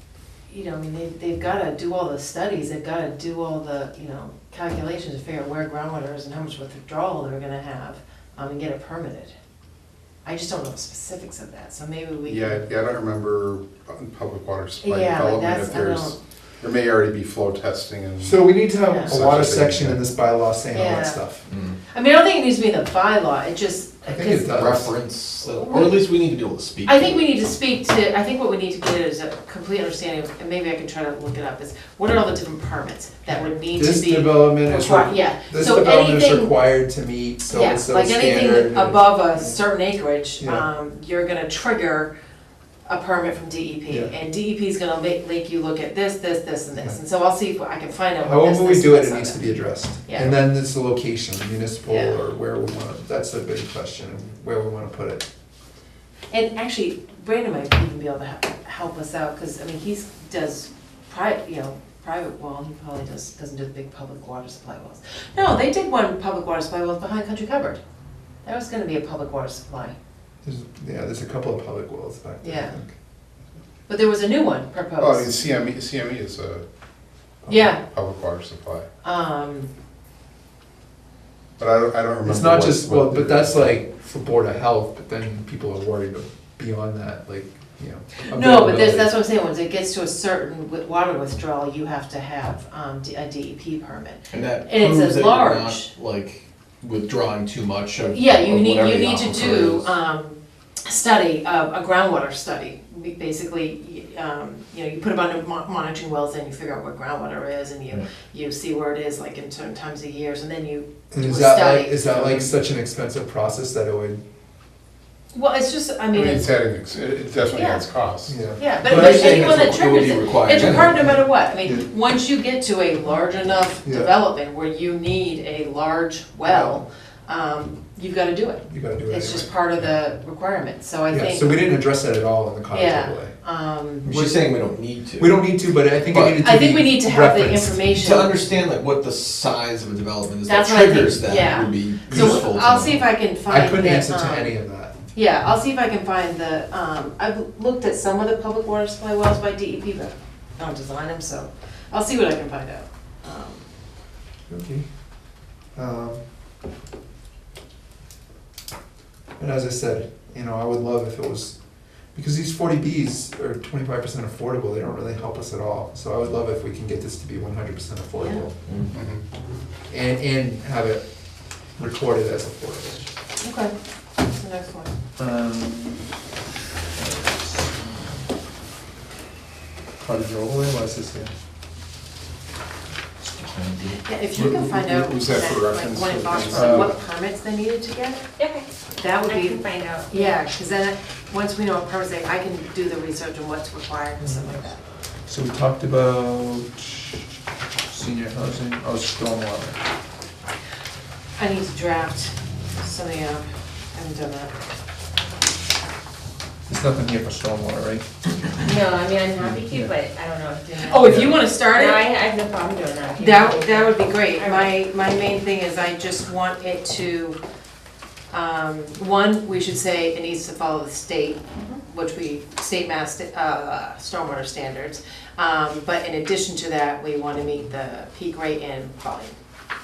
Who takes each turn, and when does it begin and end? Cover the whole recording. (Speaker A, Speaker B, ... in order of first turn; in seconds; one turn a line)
Speaker A: 0.5-9.3
Speaker A: 10.2-12.6
Speaker B: 12.2-18.5
Speaker A: 14.8-16.1
Speaker C: 18.2-21.4
Speaker A: 18.9-19.1
Speaker B: 19.0-20.0
Speaker A: 20.7-21.2
Speaker D: 21.5-21.8
Speaker A: 21.9-24.5
Speaker C: 24.1-24.9
Speaker D: 24.4-27.3
Speaker A: 25.5-26.0
Speaker A: 26.8-36.6
Speaker C: 33.3-39.6
Speaker A: 37.5-42.1
Speaker C: 40.4-40.6
Speaker A: 42.9-50.3
Speaker C: 43.9-44.1
Speaker C: 48.2-55.3
Speaker A: 51.9-52.2
Speaker A: 56.3-67.8
Speaker A: 68.4-70.0
Speaker C: 70.4-72.9
Speaker A: 72.4-72.8
Speaker A: 73.9-75.3
Speaker B: 75.0-76.6
Speaker C: 77.4-77.7
Speaker A: 77.5-77.8
Speaker B: 77.8-78.8
Speaker A: 79.0-79.7
Speaker B: 81.6-83.7
Speaker C: 82.2-89.2
Speaker A: 88.3-95.9
Speaker D: 94.3-99.9
Speaker A: 98.1-112.2
Speaker C: 111.1-114.2
Speaker A: 115.3-116.5
Speaker B: 116.1-118.4
Speaker A: 117.5-117.9
Speaker C: 118.2-119.7
Speaker A: 118.5-131.6
Speaker D: 118.8-121.1
Speaker C: 120.8-121.1
Speaker C: 121.6-121.9
Speaker C: 123.8-124.1
Speaker C: 126.4-126.8
Speaker C: 128.7-129.9
Speaker C: 131.1-133.3
Speaker A: 132.7-134.1
Speaker D: 134.0-136.4
Speaker C: 134.0-134.6
Speaker C: 135.2-137.9
Speaker A: 136.3-138.4
Speaker D: 137.9-143.1
Speaker A: 140.4-144.5
Speaker C: 142.1-142.4
Speaker C: 143.5-145.0
Speaker A: 145.1-153.7
Speaker C: 154.5-156.2
Speaker C: 159.4-161.6
Speaker C: 162.1-168.6
Speaker A: 168.2-168.4
Speaker D: 168.7-168.9
Speaker B: 168.9-169.2
Speaker C: 169.9-171.0
Speaker C: 171.7-173.1
Speaker A: 173.4-173.7
Speaker A: 174.3-174.9
Speaker C: 175.2-176.2
Speaker C: 176.9-178.3
Speaker C: 180.0-181.3
Speaker D: 183.3-184.1
Speaker A: 184.0-188.3
Speaker B: 184.3-186.9
Speaker C: 186.5-186.9
Speaker E: 188.4-188.7
Speaker A: 189.0-194.8
Speaker E: 189.2-190.4
Speaker C: 194.2-194.5
Speaker C: 195.2-197.3
Speaker C: 197.9-199.8
Speaker A: 201.4-204.5
Speaker C: 206.7-208.6
Speaker E: 208.6-214.7
Speaker C: 209.4-209.9
Speaker A: 210.8-212.0
Speaker C: 211.0-211.4
Speaker A: 213.2-217.4
Speaker A: 218.3-229.3